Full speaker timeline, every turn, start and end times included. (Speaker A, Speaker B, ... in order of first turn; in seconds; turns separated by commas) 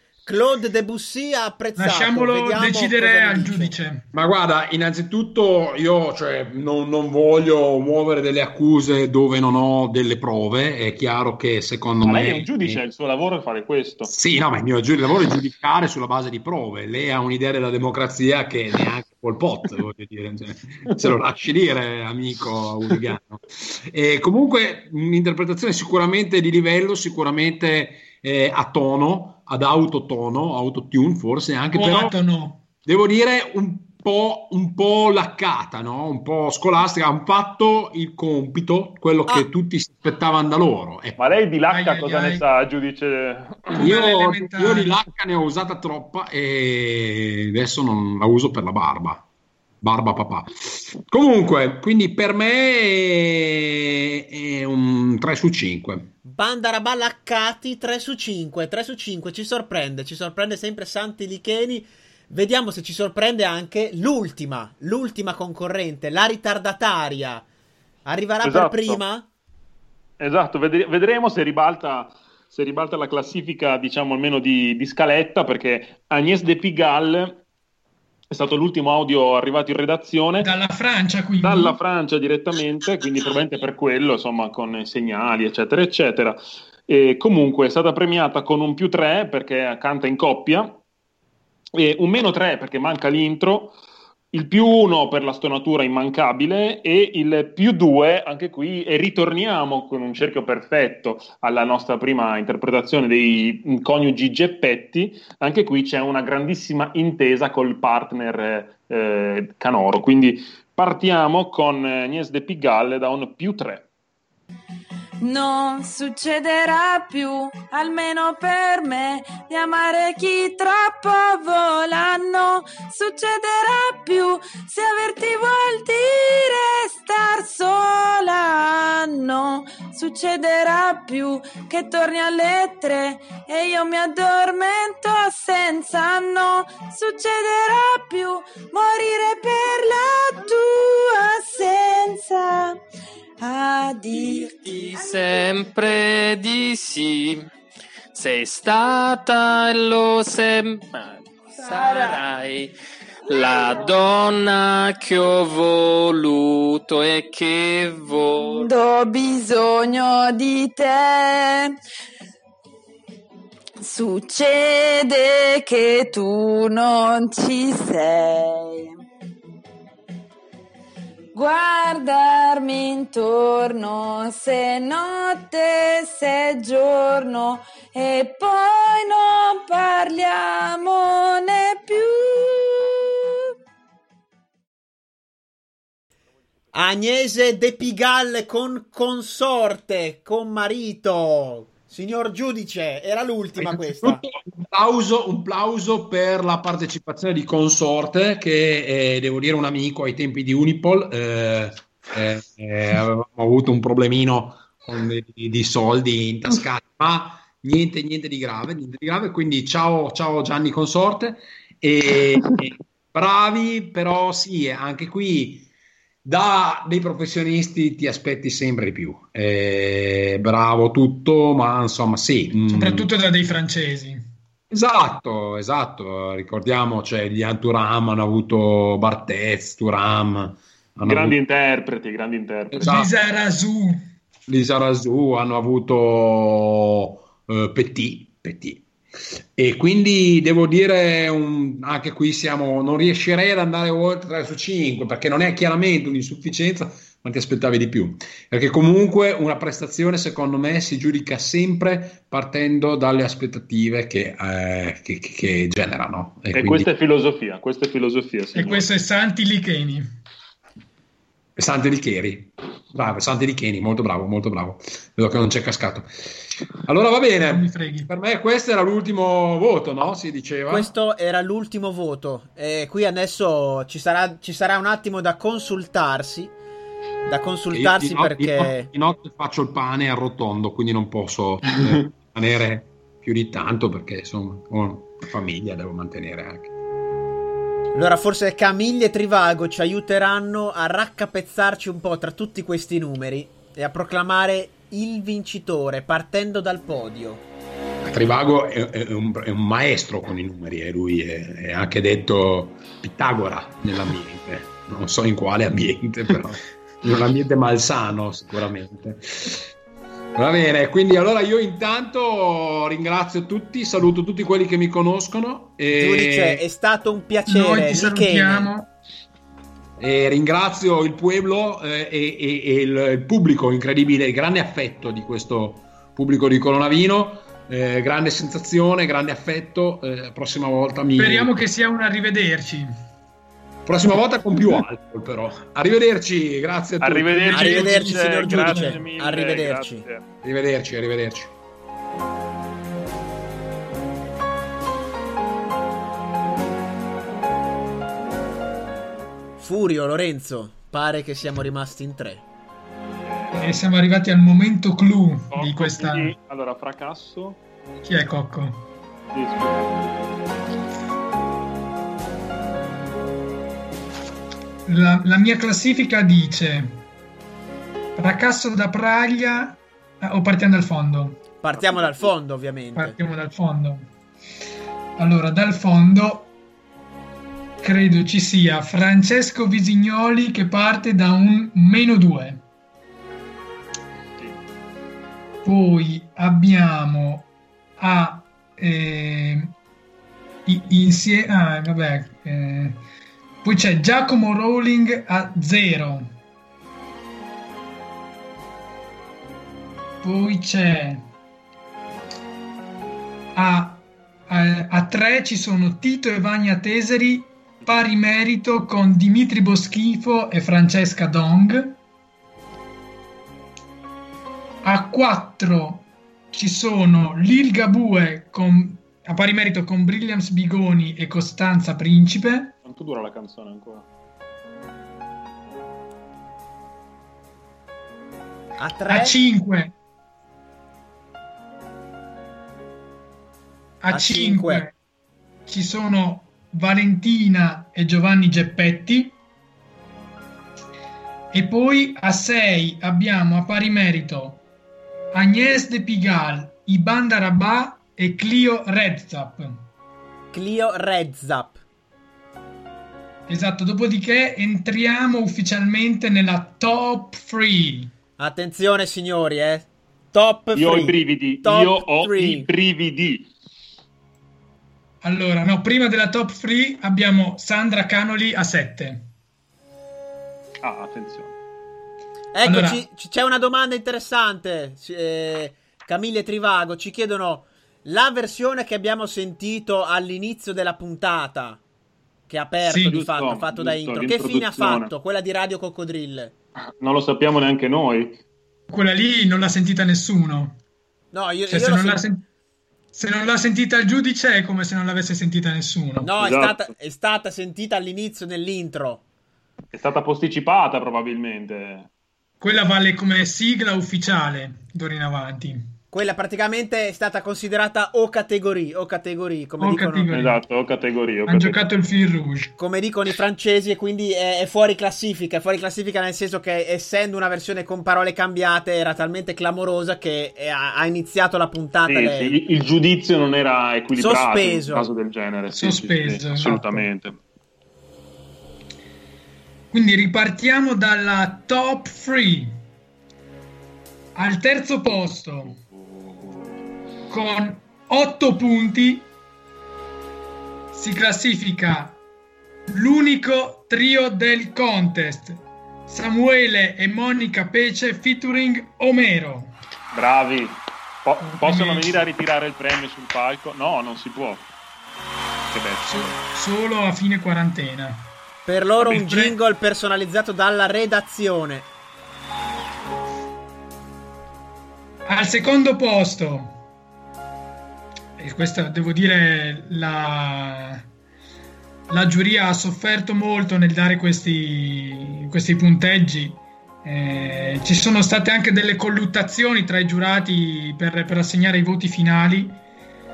Speaker A: 0.2-3.7, Speaker B: 1.8-4.0, Speaker C: 4.1-12.8, Speaker D: 12.0-14.1, Speaker C: 14.1-32.1, Speaker B: 31.7-32.6, Speaker C: 32.8-41.2, Speaker D: 41.2-43.7, Speaker B: 41.7-42.4, Speaker B: 43.7-44.9, Speaker C: 43.8-49.2, Speaker C: 49.8-56.1, Speaker A: 56.2-67.5, Speaker A: 68.0-69.3, Speaker D: 68.4-69.0, Speaker D: 70.2-77.4, Speaker D: 78.3-80.5, Speaker B: 80.4-81.8, Speaker D: 81.4-86.4, Speaker D: 86.9-90.8, Speaker D: 91.8-93.8, Speaker D: 94.3-113.9, Speaker E: 115.2-142.8, Speaker E: 143.4-144.9, Speaker F: 144.4-147.5, Speaker F: 148.1-152.7, Speaker F: 153.3-158.8, Speaker E: 158.4-161.8, Speaker E: 163.8-169.0, Speaker E: 171.3-183.4, Speaker A: 186.7-194.2, Speaker C: 193.6-215.7, Speaker C: 216.2-223.1, Speaker B: 222.7-224.2, Speaker C: 224.7-231.3, Speaker D: 231.0-232.9, Speaker C: 232.7-233.1, Speaker B: 232.8-234.0, Speaker C: 234.5-238.8, Speaker C: 239.6-256.9, Speaker D: 256.5-258.9, Speaker B: 258.5-260.1, Speaker C: 261.6-266.1, Speaker C: 266.9-270.9, Speaker B: 267.4-268.1, Speaker A: 270.7-276.5, Speaker A: 277.3-278.9, Speaker C: 277.7-286.7, Speaker A: 287.9-297.4, Speaker C: 298.0-309.7, Speaker C: 310.4-316.6, Speaker A: 315.9-318.7, Speaker B: 317.5-318.9, Speaker C: 320.0-331.6, Speaker B: 331.2-332.9, Speaker C: 333.9-337.9, Speaker D: 337.0-340.2, Speaker B: 337.5-339.0, Speaker A: 337.5-340.0, Speaker C: 340.4-341.5, Speaker A: 349.6-352.4, Speaker D: 353.3-353.6, Speaker B: 353.5-356.3, Speaker D: 355.5-357.6, Speaker B: 358.0-358.8, Speaker D: 359.3-359.9, Speaker B: 364.9-367.0, Speaker B: 368.1-371.4, Speaker A: 371.6-373.2, Speaker D: 371.8-372.3, Speaker B: 372.9-374.1, Speaker B: 375.2-376.5, Speaker B: 377.8-382.6, Speaker B: 385.6-389.7, Speaker B: 390.6-393.0, Speaker B: 393.6-396.3, Speaker B: 400.2-401.2, Speaker B: 403.5-412.0, Speaker B: 414.8-422.7, Speaker D: 422.8-424.1, Speaker A: 428.8-429.4, Speaker B: 429.1-429.9, Speaker B: 434.0-434.9, Speaker A: 434.1-434.9, Speaker B: 435.7-439.3, Speaker B: 441.5-444.6, Speaker B: 445.3-449.9, Speaker A: 450.5-451.8, Speaker B: 453.5-458.1, Speaker A: 458.4-462.7, Speaker D: 460.7-463.5, Speaker B: 465.2-469.3, Speaker D: 470.8-471.5, Speaker A: 472.5-481.8, Speaker B: 472.6-473.0, Speaker A: 482.5-486.5, Speaker B: 482.9-483.2, Speaker D: 483.0-485.1, Speaker D: 487.0-488.4, Speaker B: 488.9-490.8, Speaker A: 491.3-492.2, Speaker B: 491.7-492.4, Speaker B: 493.1-496.3, Speaker A: 496.2-499.2, Speaker D: 496.4-496.8, Speaker D: 499.9-502.1, Speaker B: 502.6-505.9, Speaker A: 506.1-510.3, Speaker B: 509.8-510.6, Speaker D: 510.3-511.8, Speaker B: 511.5-512.7, Speaker A: 512.8-522.6, Speaker D: 522.1-527.3, Speaker A: 524.2-525.1, Speaker B: 525.7-527.1, Speaker B: 529.9-532.8, Speaker B: 534.3-535.8, Speaker D: 535.1-536.8, Speaker B: 537.3-539.3, Speaker B: 540.9-542.2, Speaker B: 542.9-549.7, Speaker D: 550.1-554.7, Speaker B: 551.4-552.2, Speaker D: 555.7-556.4, Speaker B: 556.0-558.2, Speaker A: 558.6-561.9, Speaker B: 559.0-559.5, Speaker B: 565.3-566.7, Speaker B: 568.4-571.0, Speaker B: 572.1-582.8